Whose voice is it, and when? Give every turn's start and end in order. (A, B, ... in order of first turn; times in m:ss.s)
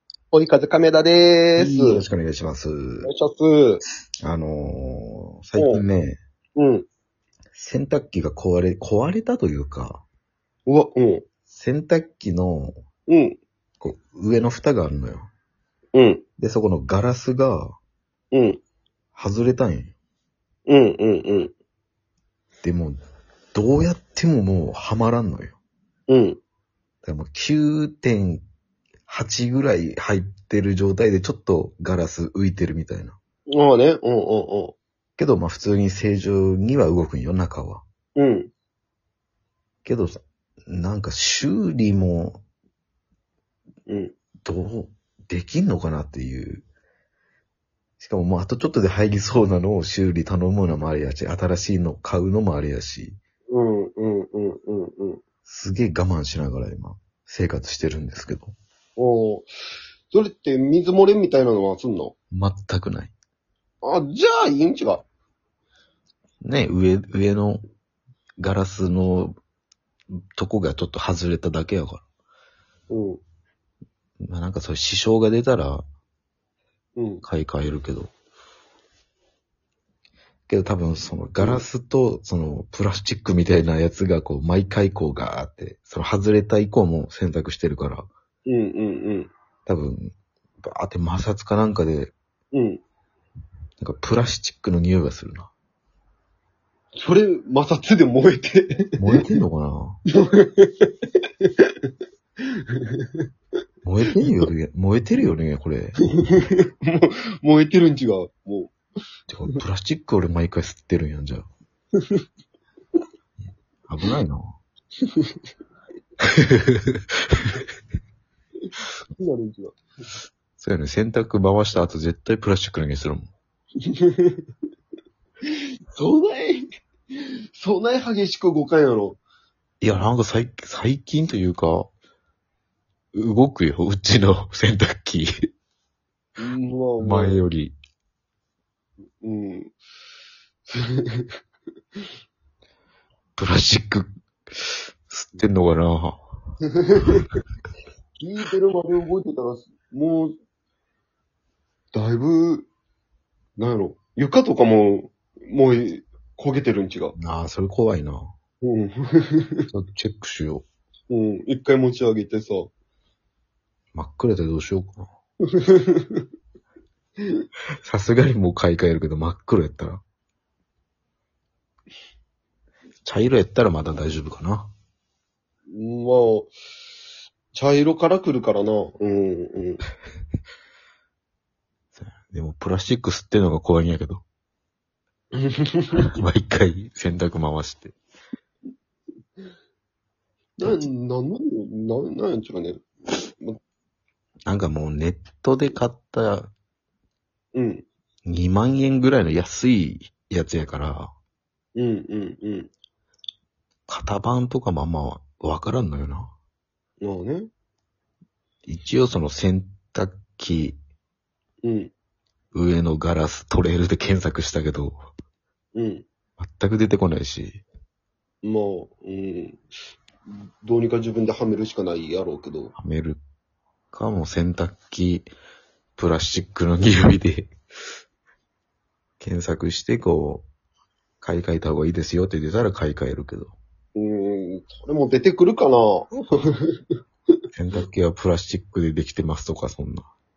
0:00.3-0:02.0 A
0:01.6-0:03.1 B
0:03.0-0:03.8 A
0:04.2-0:06.2 B
0:05.6-0:05.8 A
0:06.6-0:06.9 A
0:07.5-0:10.0 B
0:10.6-0:11.2 A
0:11.5-0:12.8 B
0:13.1-0:13.4 A
0:13.8-0:15.3 B
0:15.9-0:16.2 A
0:16.4-0:17.7 B
0:18.3-0:18.6 A
0:19.1-0:19.9 B
0:20.7-0:21.5 A
0:22.6-0:23.0 B
0:23.5-0:25.6 B
0:26.1-0:26.4 A
0:27.0-0:28.4 B
0:29.1-0:33.2 B
0:33.5-0:34.8 A
0:35.2-0:37.8 B
0:38.2-0:38.5 A
0:39.8-0:42.4 B
0:43.9-0:44.1 A
0:44.4-0:46.6 B
0:48.0-0:53.2 B
0:53.5-0:55.2 A
0:55.4-0:58.5 B
0:59.0-0:59.5 A
1:00.1-1:02.1 A
1:02.3-1:03.1 B
1:03.8-1:05.0 A
1:06.4-1:07.6 B
1:08.4-1:09.4 B
1:10.4-1:12.0 B
1:12.9-1:13.2 A
1:14.2-1:15.8 B
1:17.0-1:17.2 A
1:17.2-1:18.1 B
1:20.5-1:28.1 B
1:21.4-1:21.6 A
1:28.4-1:29.3 A
1:29.6-1:32.1 B
1:32.5-1:32.8 A
1:33.8-1:35.5 B
1:37.0-1:39.2 A
1:39.0-1:40.0 B
1:40.1-1:43.2 A
1:43.8-1:46.0 B
1:46.2-1:48.7 A
1:49.3-1:51.5 B
1:53.9-1:54.5 B
1:55.0-1:55.3 A
1:56.2-1:57.6 B
1:59.2-1:59.8 A
2:00.6-2:03.3 B
2:03.8-2:04.5 A
2:05.5-2:09.2 A
2:09.8-2:11.9 B
2:13.1-2:15.3 B
2:16.4-2:17.4 A
2:17.0-2:17.7 B
2:19.2-2:19.7 A
2:20.7-2:21.4 A
2:23.4-2:26.2 B
2:26.8-2:27.2 A
2:28.2-2:30.3 A
2:31.9-2:32.7 A
2:33.6-2:37.1 A
2:37.2-2:38.3 B
2:38.6-2:39.6 A
2:39.7-2:40.6 B
2:41.1-2:42.7 A
2:43.9-2:45.1 B
2:45.5-2:46.3 A
2:47.2-2:47.5 A
2:47.8-2:50.0 B
2:53.0-2:54.7 B
2:55.7-2:56.5 A
2:57.5-2:59.8 A
3:01.9-3:04.2 B
3:05.4-3:06.1 A
3:05.9-3:07.9 B
3:10.6-3:13.6 A
3:14.5-3:16.5 B
3:17.5-3:17.8 A
3:18.2-3:21.1 B
3:21.8-3:22.7 A
3:23.9-3:26.3 B
3:27.0-3:27.5 A
3:28.6-3:30.8 B
3:31.6-3:31.9 A
3:32.5-3:35.0 B
3:35.7-3:36.0 A
3:36.4-3:37.6 B
3:38.4-3:39.6 A
3:40.3-3:42.7 A
3:42.8-3:43.2 B
3:43.9-3:45.3 B
3:46.0-3:47.5 B
3:49.2-3:50.4 B
3:51.2-3:53.5 B
3:54.0-3:57.0 A
3:57.5-4:00.1 B